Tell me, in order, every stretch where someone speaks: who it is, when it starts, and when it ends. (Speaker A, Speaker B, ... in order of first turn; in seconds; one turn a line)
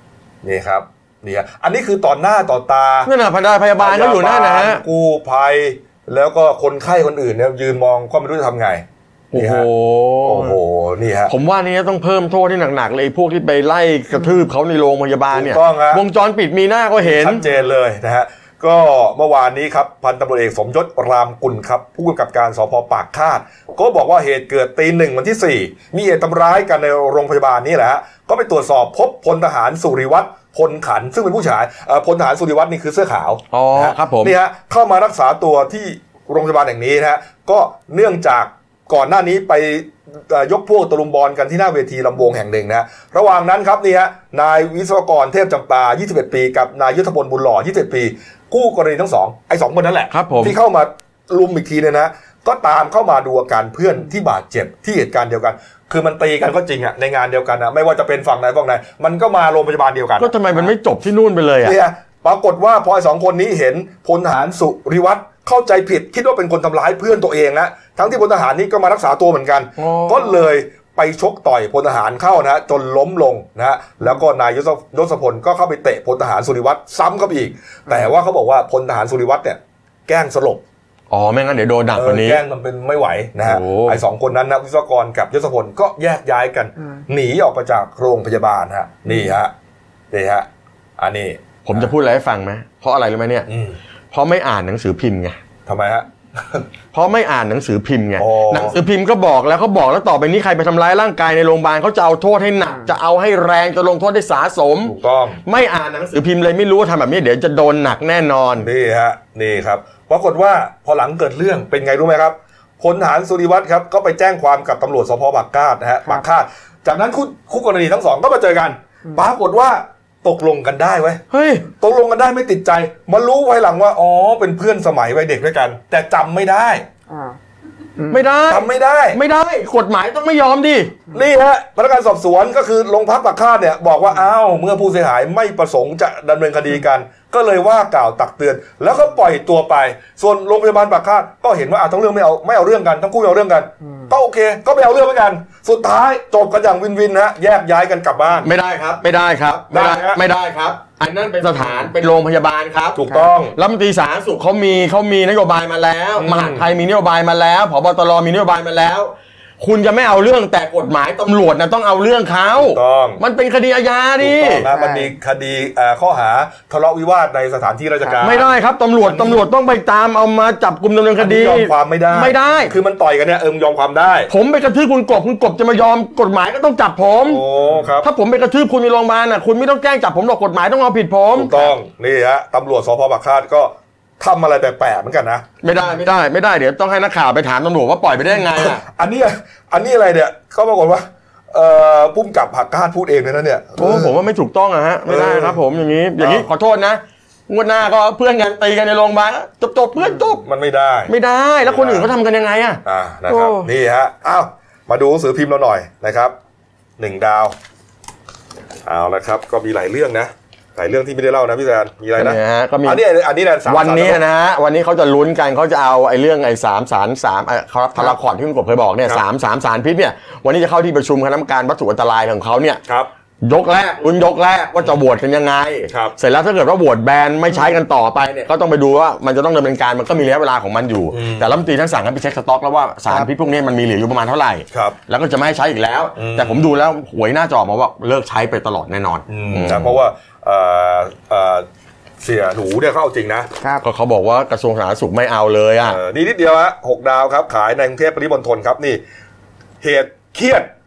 Speaker A: 0.4-3.1
Speaker B: 3.0-4.8
Speaker A: 3.8-9.7
Speaker B: 9.3-10.6
Speaker A: 10.2-11.3
Speaker B: 11.3-17.4
Speaker A: 15.3-16.0
Speaker A: 17.0-60.3
Speaker B: 33.5-34.3
Speaker B: 50.1-50.5
Speaker B: 60.2-61.8
Speaker A: 61.6-80.6
Speaker B: 69.8-70.4
Speaker B: 81.1-82.4
Speaker A: 81.9-89.5
Speaker B: 83.4-84.0
Speaker A: 90.1-90.5
Speaker A: 91.0-91.9
Speaker B: 91.6-93.5
Speaker A: 93.5-93.8
Speaker B: 94.1-95.4
Speaker A: 95.7-96.6
Speaker B: 96.9-108.7
Speaker A: 98.2-98.8
Speaker A: 104.8-105.4
Speaker A: 108.6-126.8
Speaker B: 121.3-121.7
Speaker C: 127.1-127.4
Speaker C: 128.0-128.3
Speaker B: 128.1-130.9
Speaker A: 128.5-129.2
Speaker A: 131.1-148.5
Speaker B: 148.4-164.7
Speaker A: 149.7-150.2
Speaker A: 152.9-153.5
Speaker C: 156.2-156.7
Speaker A: 162.6-163.2
Speaker A: 164.2-169.4
Speaker C: 164.7-165.1
Speaker C: 168.0-168.3
Speaker B: 168.2-172.8
Speaker A: 171.2-174.3
Speaker B: 174.3-177.4
Speaker A: 177.3-178.1
Speaker B: 178.0-181.7
Speaker A: 181.3-185.4
Speaker B: 185.6-188.8
Speaker A: 188.5-194.2
Speaker B: 193.8-200.4
Speaker A: 195.1-195.6
Speaker A: 196.2-196.4
Speaker A: 200.4-202.1
Speaker B: 201.1-203.7
Speaker A: 202.8-206.3
Speaker A: 207.0-207.5
Speaker A: 208.8-214.2
Speaker B: 212.2-213.0
Speaker B: 213.7-222.8
Speaker B: 223.4-240.0
Speaker A: 225.9-226.1
Speaker A: 231.1-231.6
Speaker A: 236.2-236.7
Speaker A: 239.3-241.7
Speaker A: 242.2-243.5
Speaker B: 243.8-246.0
Speaker A: 245.8-249.0
Speaker A: 249.8-250.7